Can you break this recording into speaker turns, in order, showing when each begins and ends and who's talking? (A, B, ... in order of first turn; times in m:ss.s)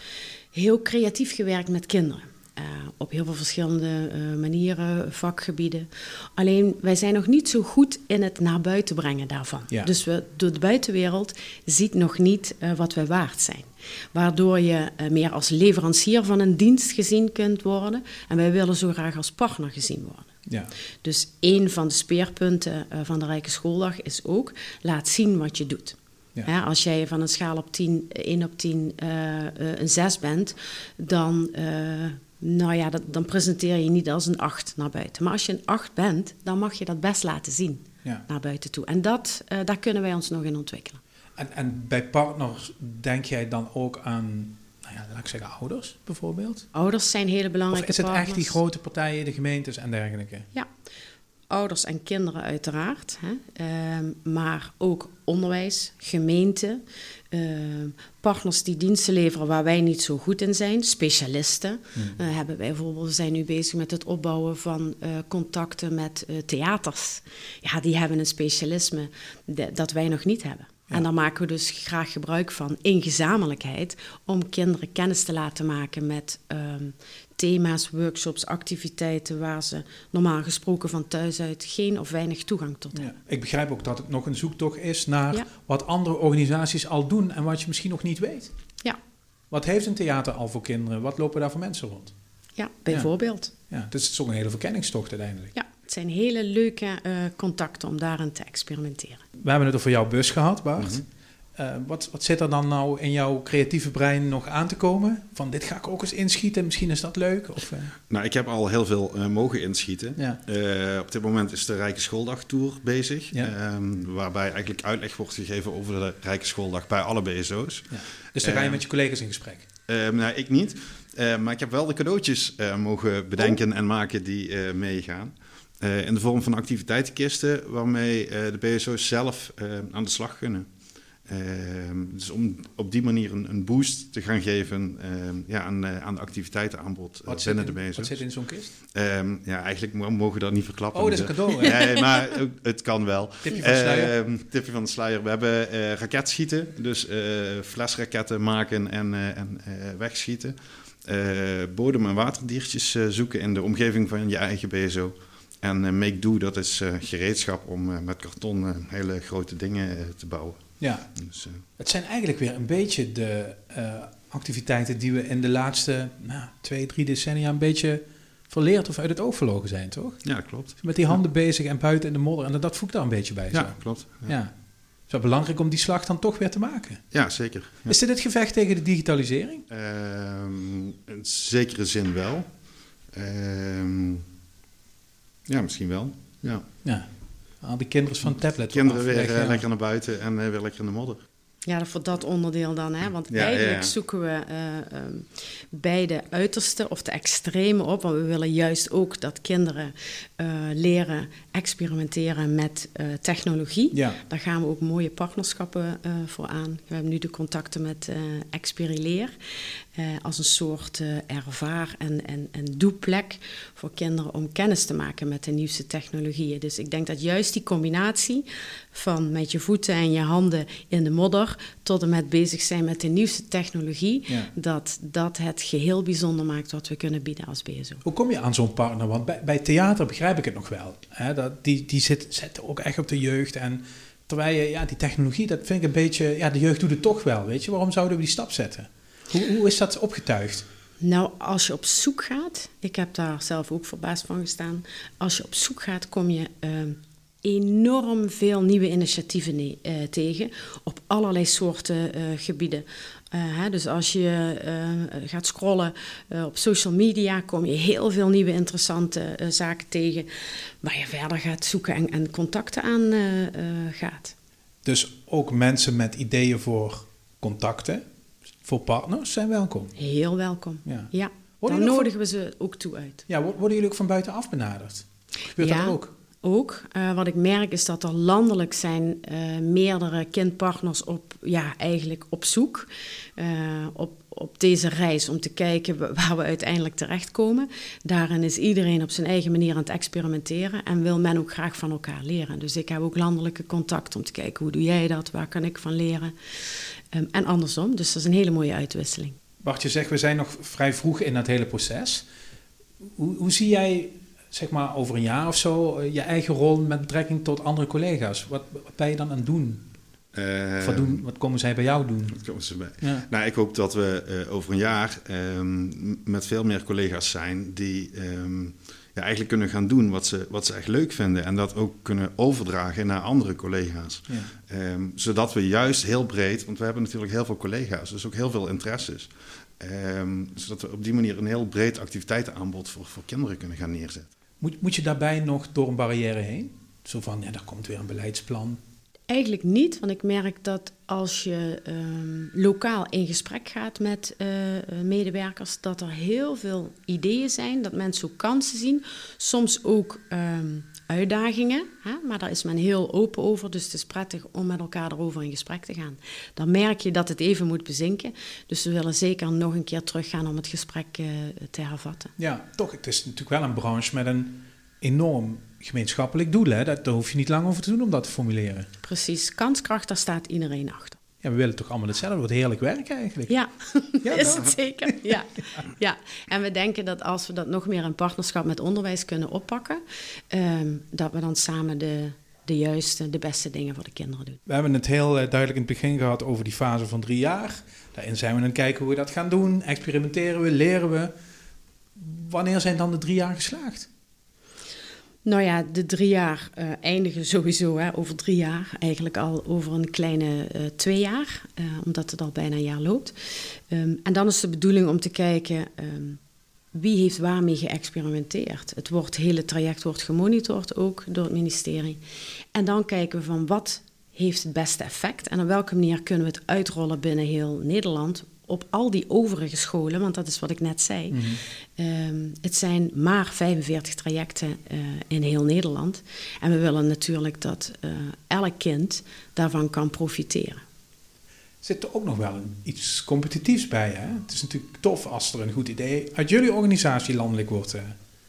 0:00.5-0:20.3 A
0:20.5-0:20.7 B
0:21.0-0:41.0 A
0:41.4-0:46.6 B
0:46.7-0:48.6 A
0:47.7-0:50.5 B
0:51.5-1:23.1 A
1:22.9-1:28.5 B
1:29.5-1:32.1 B
1:32.6-1:33.5 A
1:33.7-1:35.5 B
1:35.5-1:39.2 A
1:39.4-1:41.0 B
1:40.8-1:41.0 C
1:41.6-1:47.9 B
1:48.1-1:58.8 C
1:50.2-1:50.4 B
1:57.9-1:59.6 B
1:59.9-2:10.6 C
2:11.3-2:18.2 C
2:17.2-2:18.7 B
2:18.9-2:41.6 C
2:20.9-2:21.9 B
2:23.4-2:24.1 B
2:40.8-2:41.1 B
2:41.8-2:54.5 B
2:50.2-2:50.8 C
2:53.5-2:54.4 C
2:55.1-2:57.0 B
2:57.1-2:58.0 C
2:57.9-2:59.6 B
2:59.7-3:02.5 C
3:03.1-3:04.2 C
3:05.5-3:06.6 C
3:07.6-3:09.6 B
3:08.7-3:11.2 C
3:11.6-3:29.3 A
3:13.3-3:13.9 C
3:23.9-3:24.2 B
3:29.9-3:48.0 A
3:48.0-4:00.6 B
4:01.0-4:24.3 A
4:24.8-4:28.0 B
4:28.6-4:29.9 B
4:30.0-4:33.2 A
4:30.8-4:32.1 B
4:33.3-4:36.1 B
4:35.6-4:56.3 A
4:57.1-4:59.4 A
4:59.6-5:02.2 B
5:03.0-5:09.8 B
5:10.3-5:11.2 C
5:10.8-5:12.4 B
5:12.3-5:34.3 C
5:13.0-5:13.3 B
5:34.6-5:38.8 B
5:39.3-6:02.3 A
6:02.4-6:08.9 B
6:09.0-6:11.2 A
6:11.4-6:13.6 B
6:13.5-6:24.6 A
6:14.2-6:15.4 B
6:24.6-6:31.3 B
6:32.2-6:34.1 B
6:35.4-6:43.4 A
6:43.9-6:46.4 A
6:46.9-6:52.2 A
6:52.7-7:10.8 A
7:01.3-7:01.6 B
7:11.8-7:18.2 B